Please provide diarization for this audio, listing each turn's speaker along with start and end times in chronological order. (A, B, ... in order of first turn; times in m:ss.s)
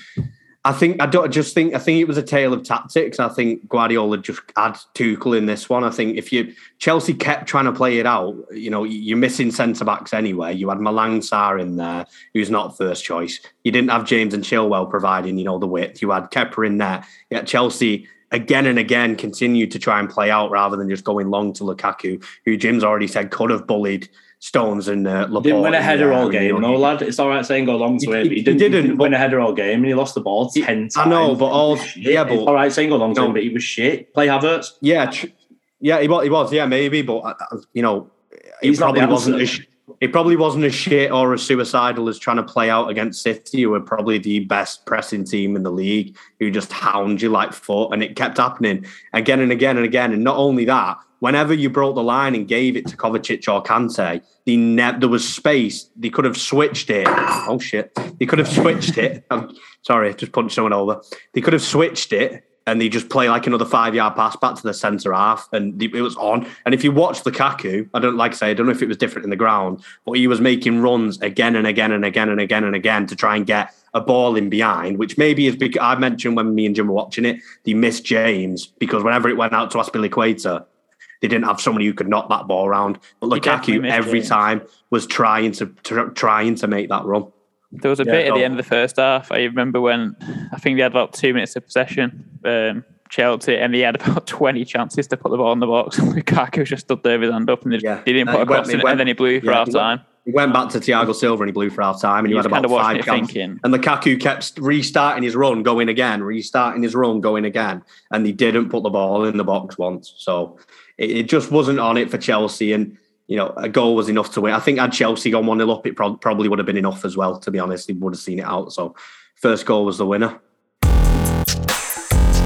0:00.6-0:26.9 A
0:25.4-0:34.7 B
0:28.0-0:29.1 A
0:30.6-0:32.5 A
0:34.8-1:20.6 A
0:38.6-0:39.5 B
1:21.2-1:27.3 A
1:23.3-1:24.4 C
1:27.8-1:40.0 C
1:28.0-1:28.6 A
1:37.8-2:00.4 A
1:42.3-1:43.6 C